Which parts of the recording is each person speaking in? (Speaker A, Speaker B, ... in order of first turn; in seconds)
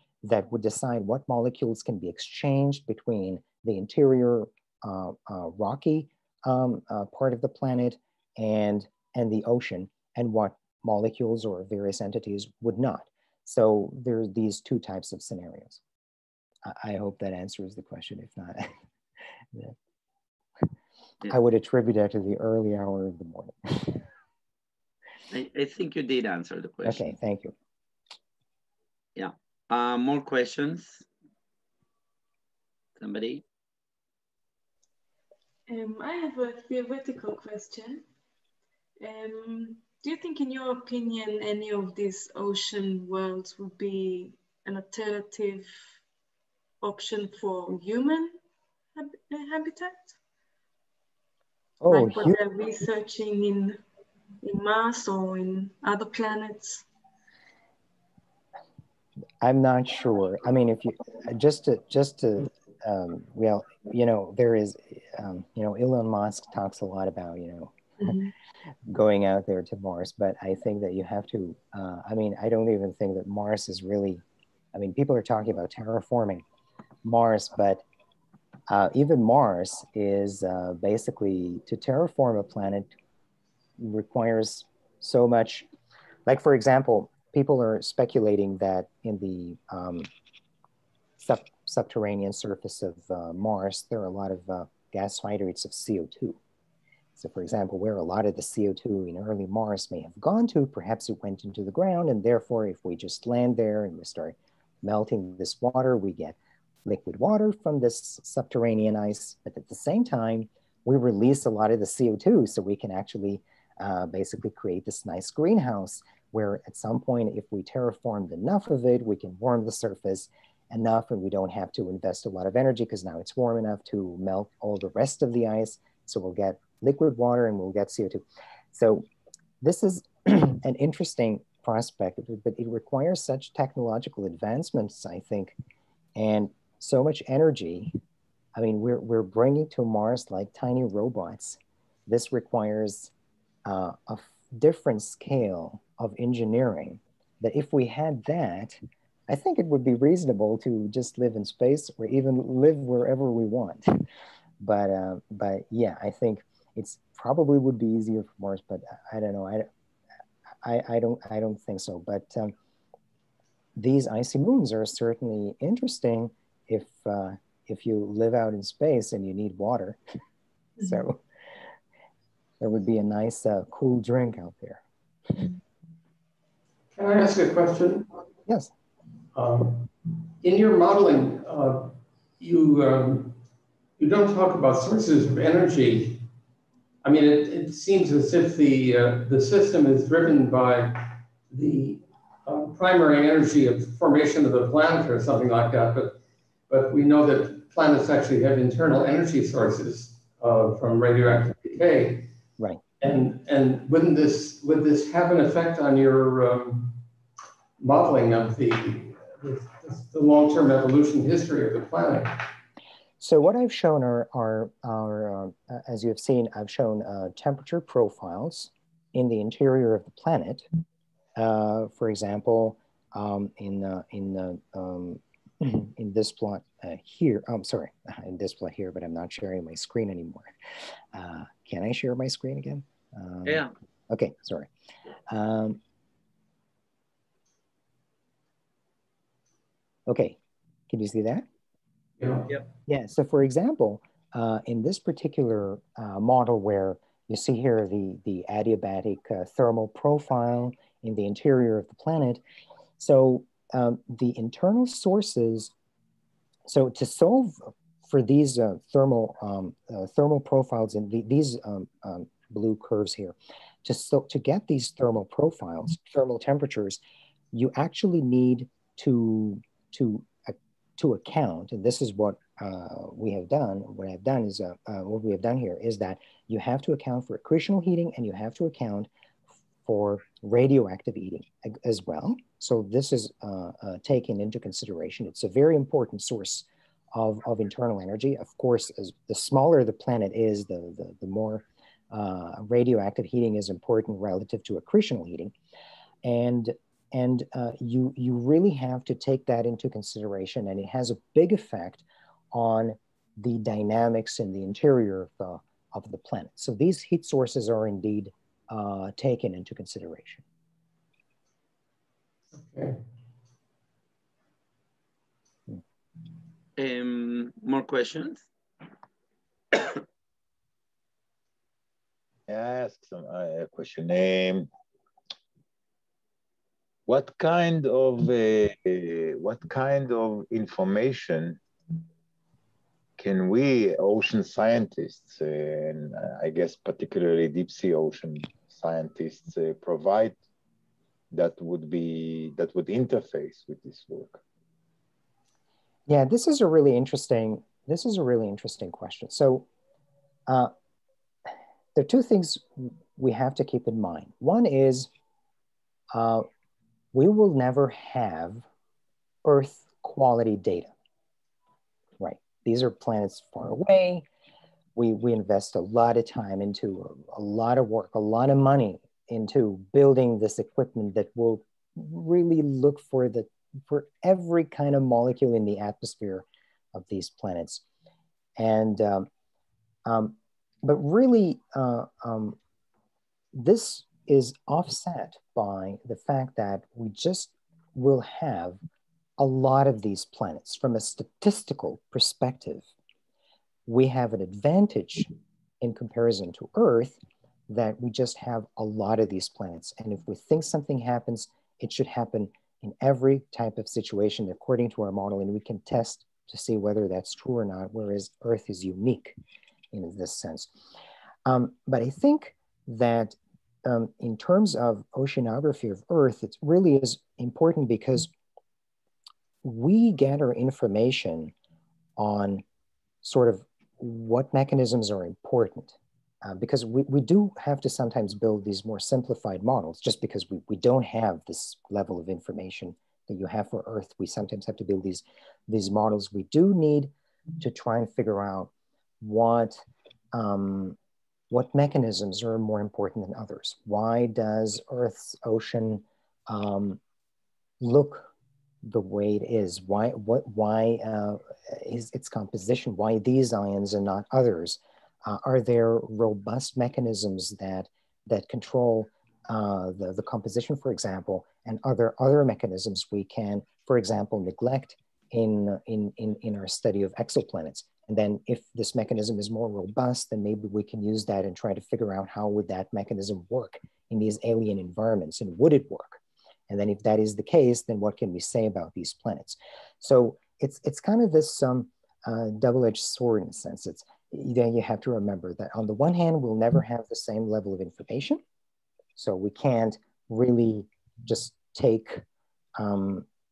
Speaker A: 0.2-15.8, 16.6-18.7, 21.3-24.0, 26.9-27.5, 51.8-52.4, 59.4-67.7, 68.9-74.2, 74.7-76.4, 77.0-77.8, 78.7-82.9, 83.8-85.7, 86.3-90.1, 91.2-96.4, 97.2-129.1, 129.6-135.6, 136.2-137.9, 138.6-143.1, 143.7-154.0, 154.6-159.7, 160.6-162.5, 163.8-170.0, 170.8-171.2, 172.6-174.8, 213.2-220.7, 221.4-230.5, 231.1-234.7, 235.3-235.8, 240.1-240.4, 240.9-241.5, 242.9-252.4, 253.0-255.7, 256.7-267.0, 267.5-279.1, 279.9-295.5, 296.2-310.4, 346.1-349.7, 350.5-350.7, 351.9-355.1, 356.1-356.5, 357.1-358.6, 359.4-360.9, 362.2-364.2, 365.0-377.8, 378.6-379.3, 380.1-382.6, 383.5-388.8, 389.4-392.9, 393.9-409.4, 409.9-410.7, 411.4-418.3, 419.6-421.5, 422.2-422.6, 423.2-438.7, 439.2-439.8, 440.3-441.0, 441.5-447.0, 447.8-448.3, 448.8-488.4, 489.2-492.2, 492.8-493.3
Speaker B: 25.3-27.1, 29.1-31.1, 33.0-33.4, 233.4-233.7, 316.8-318.5, 319.7-320.0
Speaker C: 35.7-38.0, 39.0-45.7, 46.8-48.4, 49.0-50.1, 51.9-53.8, 54.4-56.9, 68.0-68.3
Speaker D: 176.9-178.1, 179.3-179.9, 180.4-183.4, 184.0-186.2, 187.0-196.2, 196.7-202.3, 203.0-207.0, 207.8-212.5, 242.2-242.5, 312.6-313.0
Speaker E: 322.5-324.7, 327.1-331.6, 333.2-340.4, 341.3-344.4